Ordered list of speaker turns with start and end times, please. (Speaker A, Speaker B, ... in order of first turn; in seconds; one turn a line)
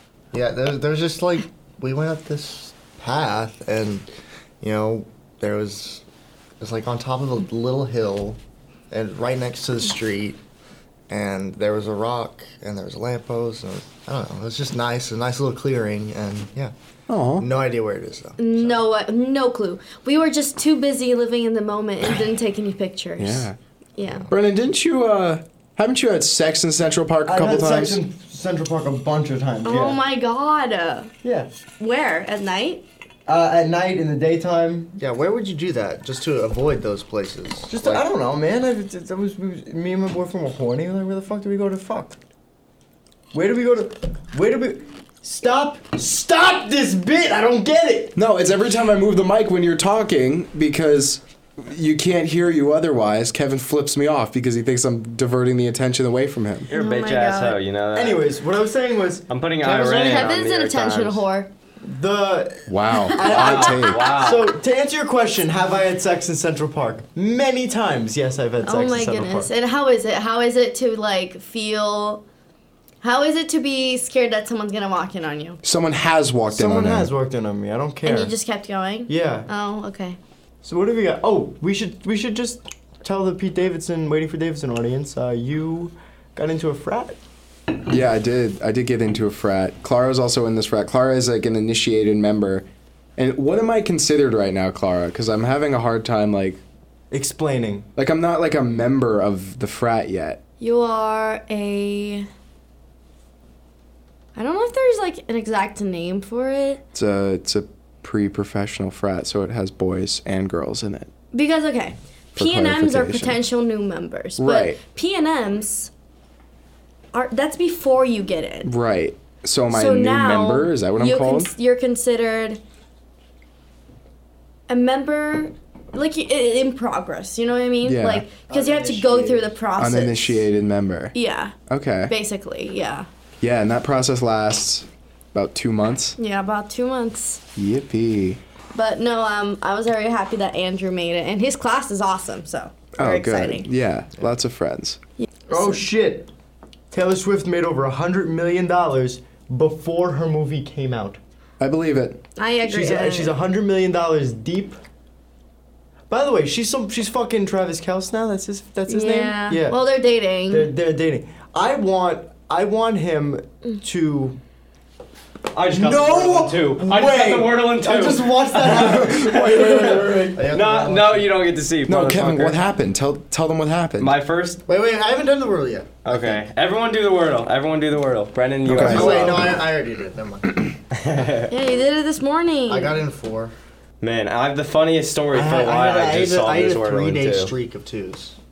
Speaker A: 0.3-4.1
Speaker A: 4.6-6.0
Speaker A: 6.6-8.4
Speaker A: 8.9-10.4
Speaker A: 11.1-16.7
Speaker B: 17.1-17.4
Speaker A: 17.4-18.8
Speaker C: 18.4-24.3
Speaker B: 23.2-23.6
Speaker B: 24.3-28.0
Speaker D: 27.2-30.0
Speaker C: 29.6-31.1
Speaker D: 31.2-31.5
Speaker C: 31.8-32.8
Speaker D: 33.2-35.0
Speaker A: 35.0-38.0
Speaker D: 37.7-42.2
Speaker D: 43.3-48.1
Speaker B: 48.1-56.7
Speaker E: 56.7-58.3
Speaker C: 56.7-57.6
Speaker D: 57.9-60.3
Speaker E: 59.3-61.2
Speaker C: 59.9-61.5
Speaker D: 61.8-69.5
Speaker B: 62.7-64.1
Speaker E: 63.2-64.5
Speaker C: 68.6-72.2
Speaker C: 73.0-75.6
Speaker B: 75.6-77.1
Speaker D: 76.5-78.3
Speaker C: 78.0-80.2
Speaker D: 79.1-79.5
Speaker D: 80.6-87.2
Speaker B: 87.9-92.7
Speaker B: 93.2-96.6
Speaker D: 97.1-97.9
Speaker B: 98.0-100.4
Speaker C: 100.6-102.3
Speaker C: 104.3-106.8
Speaker B: 106.9-111.1
Speaker C: 111.3-115.9
Speaker B: 112.3-113.4
Speaker B: 114.4-114.8
Speaker C: 117.1-118.7
Speaker B: 118.6-121.5
Speaker C: 119.7-122.6
Speaker C: 124.7-130.4
Speaker B: 127.8-128.3
Speaker D: 128.5-129.5
Speaker B: 129.8-131.1
Speaker C: 131.1-131.5
Speaker B: 131.7-132.1
Speaker C: 132.1-133.1
Speaker B: 133.4-136.2
Speaker C: 136.2-137.4
Speaker B: 137.6-138.4
Speaker C: 138.7-143.7
Speaker B: 143.0-145.0
Speaker C: 145.2-145.8
Speaker D: 145.5-146.3
Speaker D: 146.9-151.2
Speaker B: 151.6-152.2
Speaker C: 152.3-153.3
Speaker D: 152.6-154.8
Speaker D: 156.1-159.8
Speaker C: 158.9-160.7
Speaker D: 160.5-164.4
Speaker E: 165.5-172.6
Speaker D: 165.7-170.4
Speaker B: 168.9-169.4
Speaker A: 170.3-171.4
Speaker B: 171.8-174.2
Speaker E: 174.0-174.6
Speaker A: 174.7-176.4
Speaker E: 176.0-179.6
Speaker B: 178.7-179.6
Speaker A: 178.7-180.5
Speaker E: 180.9-181.5
Speaker C: 181.5-183.0
Speaker A: 182.7-183.5
Speaker E: 184.0-187.5
Speaker A: 185.3-188.3